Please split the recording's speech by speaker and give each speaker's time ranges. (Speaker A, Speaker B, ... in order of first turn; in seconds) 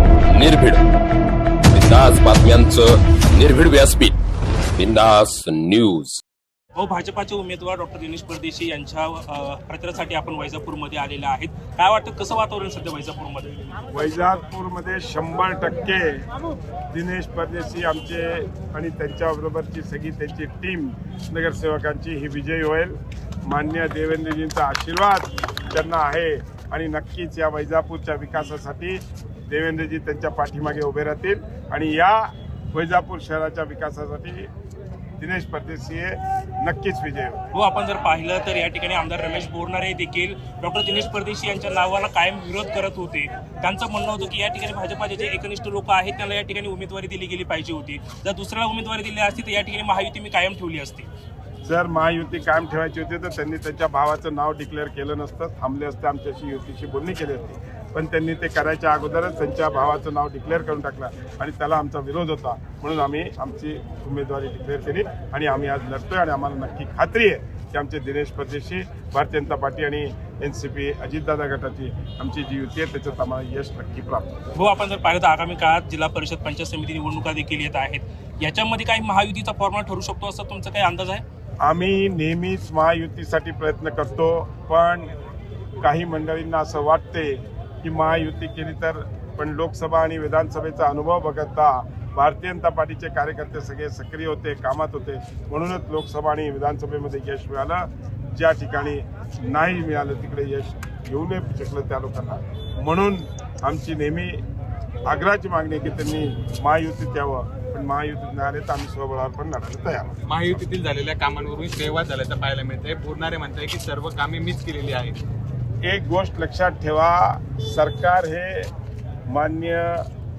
Speaker A: 0.3-0.8, 1.7-4.2, 4.8-6.2
Speaker B: 6.8-13.5, 37.5-51.1, 74.5-81.2
Speaker C: 13.9-16.3, 16.9-34.5, 35.2-37.4, 51.6-74.5, 81.6-85.1, 85.8-104.4, 105.1-110.2, 115.8-118.7, 119.3-120.1
Speaker D: 110.3-115.2